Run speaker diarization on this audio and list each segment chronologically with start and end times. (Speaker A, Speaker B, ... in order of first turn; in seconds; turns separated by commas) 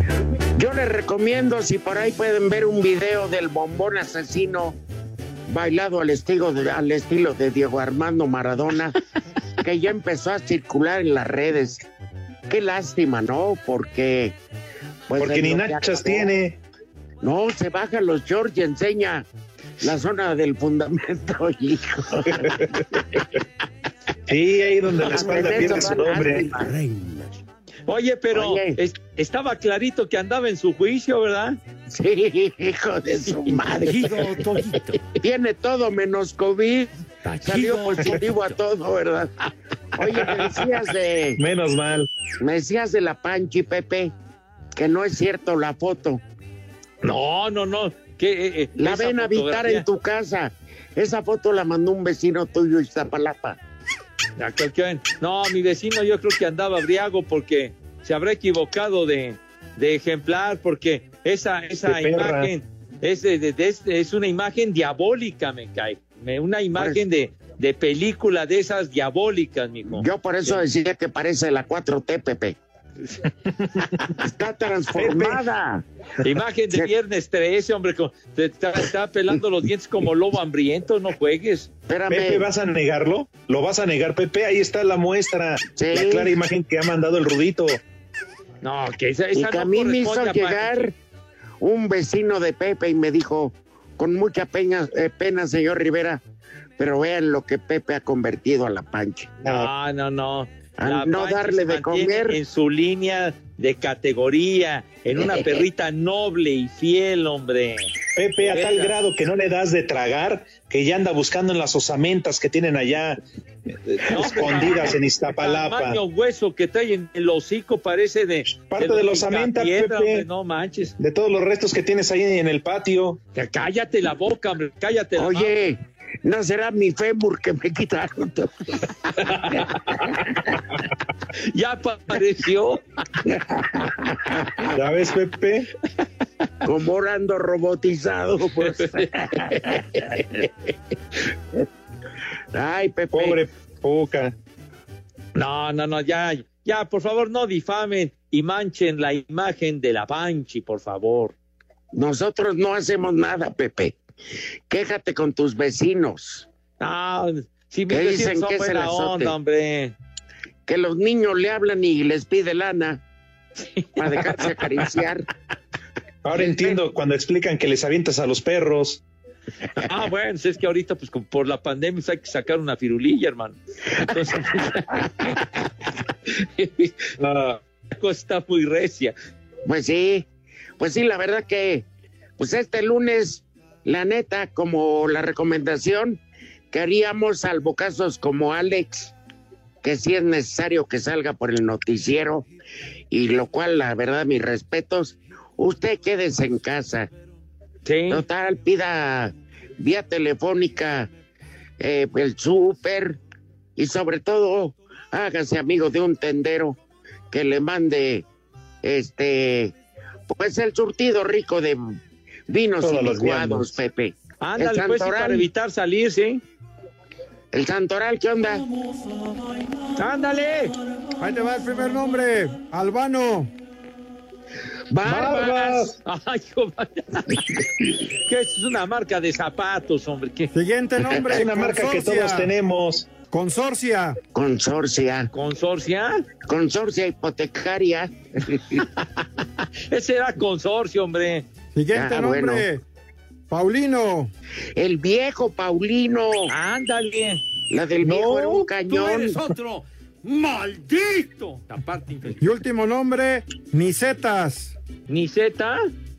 Speaker A: 0.6-4.8, Speaker A: 5.5-9.0, Speaker A: 9.6-11.8, Speaker A: 12.5-14.4, Speaker A: 15.1-16.3, Speaker B: 15.2-16.6, Speaker A: 17.2-19.3, Speaker A: 19.8-23.2, Speaker B: 22.3-22.7, Speaker B: 24.3-26.5, Speaker A: 25.0-26.7, Speaker C: 27.9-31.6, Speaker A: 28.3-28.8, Speaker A: 31.9-34.4, Speaker D: 33.7-35.0, Speaker A: 35.2-36.9, Speaker A: 37.4-39.3, Speaker D: 37.5-38.2, Speaker A: 40.0-41.4, Speaker B: 41.4-42.1, Speaker A: 42.4-44.1, Speaker A: 44.8-46.2, Speaker C: 47.0-49.9, Speaker A: 48.8-53.6, Speaker C: 54.4-70.6, Speaker B: 61.9-62.5, Speaker A: 69.9-72.6, Speaker A: 74.2-75.8, Speaker B: 75.0-75.4, Speaker C: 76.2-81.7, Speaker A: 81.9-82.5, Speaker B: 82.1-87.8, Speaker A: 85.8-86.3, Speaker C: 88.6-90.9, Speaker A: 89.3-91.0, Speaker A: 91.6-96.2, Speaker A: 96.8-99.6, Speaker C: 99.5-107.9, Speaker A: 100.8-102.4, Speaker B: 108.2-113.2, Speaker C: 108.5-109.0, Speaker B: 113.9-116.0, Speaker C: 114.0-121.0, Speaker B: 118.5-120.3, Speaker B: 121.0-123.2, Speaker C: 123.3-125.5, Speaker A: 125.2-130.2, Speaker C: 131.3-132.8, Speaker A: 133.3-134.0, Speaker B: 134.7-135.7, Speaker A: 136.6-139.8, Speaker C: 139.5-140.5, Speaker A: 142.5-143.4, Speaker B: 143.1-144.3, Speaker C: 145.3-151.3, Speaker A: 151.9-154.0, Speaker A: 154.7-156.5, Speaker C: 156.8-159.9, Speaker A: 157.9-159.3, Speaker A: 160.7-163.0, Speaker C: 163.8-164.5, Speaker A: 164.0-165.3, Speaker B: 166.2-169.0, Speaker A: 166.3-166.8, Speaker C: 169.8-175.4, Speaker C: 176.3-177.1, Speaker B: 177.2-177.6, Speaker C: 178.0-179.1, Speaker A: 179.7-180.3, Speaker A: 180.8-181.8, Speaker A: 182.4-186.2, Speaker A: 186.7-189.1, Speaker A: 189.8-192.5, Speaker A: 193.1-197.1, Speaker C: 197.8-198.2, Speaker A: 198.1-201.1, Speaker A: 201.8-203.2, Speaker A: 203.8-206.8, Speaker A: 207.3-208.2, Speaker A: 208.8-209.8, Speaker A: 210.3-212.0, Speaker A: 212.5-215.5, Speaker B: 212.8-213.8, Speaker C: 214.4-216.4, Speaker A: 217.5-218.7, Speaker C: 220.0-220.7, Speaker E: 221.2-223.5, Speaker A: 224.9-225.7, Speaker B: 225.0-226.0, Speaker C: 225.1-227.4, Speaker C: 228.2-230.5, Speaker E: 230.5-232.5, Speaker A: 231.0-231.4, Speaker B: 231.3-233.1, Speaker E: 233.3-234.2, Speaker A: 234.3-235.3, Speaker C: 235.3-236.3, Speaker A: 236.5-238.8, Speaker C: 239.9-241.5, Speaker E: 241.8-242.8, Speaker A: 241.9-242.7, Speaker E: 243.5-244.3, Speaker A: 244.8-246.5, Speaker C: 246.5-247.4, Speaker A: 247.7-249.4, Speaker B: 248.0-248.7, Speaker D: 248.8-252.4, Speaker E: 252.4-254.8, Speaker C: 255.1-255.8